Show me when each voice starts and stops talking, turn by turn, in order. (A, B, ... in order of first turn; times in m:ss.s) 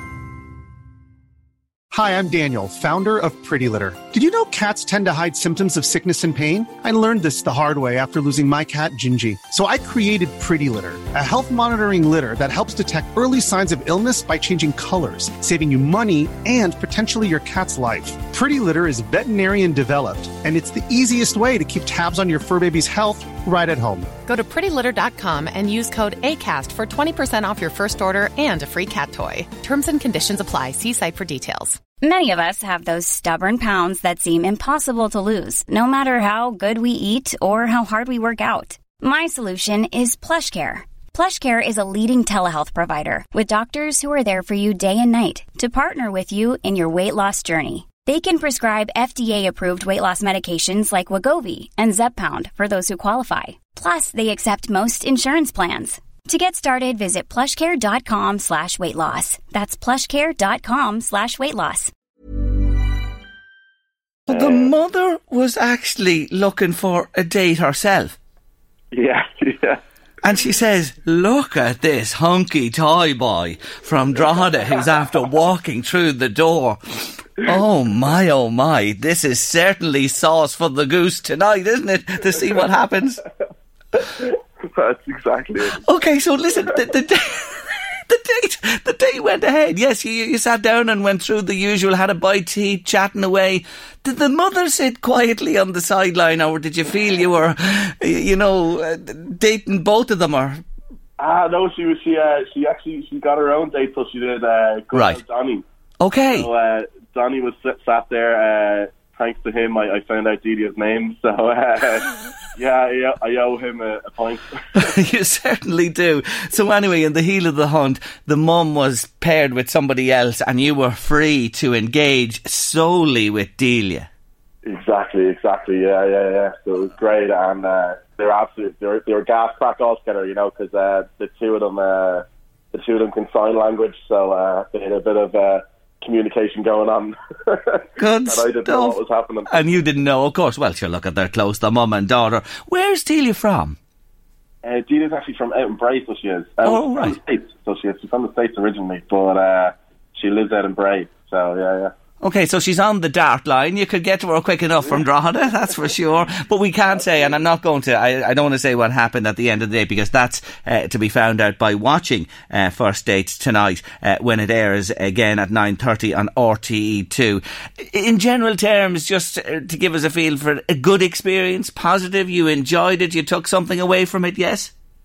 0:01.9-0:24.1 A
0:24.3-0:31.8 B
0:32.0-1:01.9 C
1:04.3-1:08.2 D
1:04.3-1:04.7 E
1:08.9-1:09.8 E
1:10.2-1:23.2 D
1:24.6-1:25.8 E
1:25.8-1:40.6 D
1:41.2-1:45.6 E
1:44.9-1:45.2 D
1:46.0-1:46.5 D
1:46.3-1:54.8 E
1:54.8-2:04.1 D
2:04.6-2:19.5 E
2:18.0-2:23.8 D
2:24.6-2:31.9 E
2:26.6-2:27.2 D
2:32.2-2:54.7 D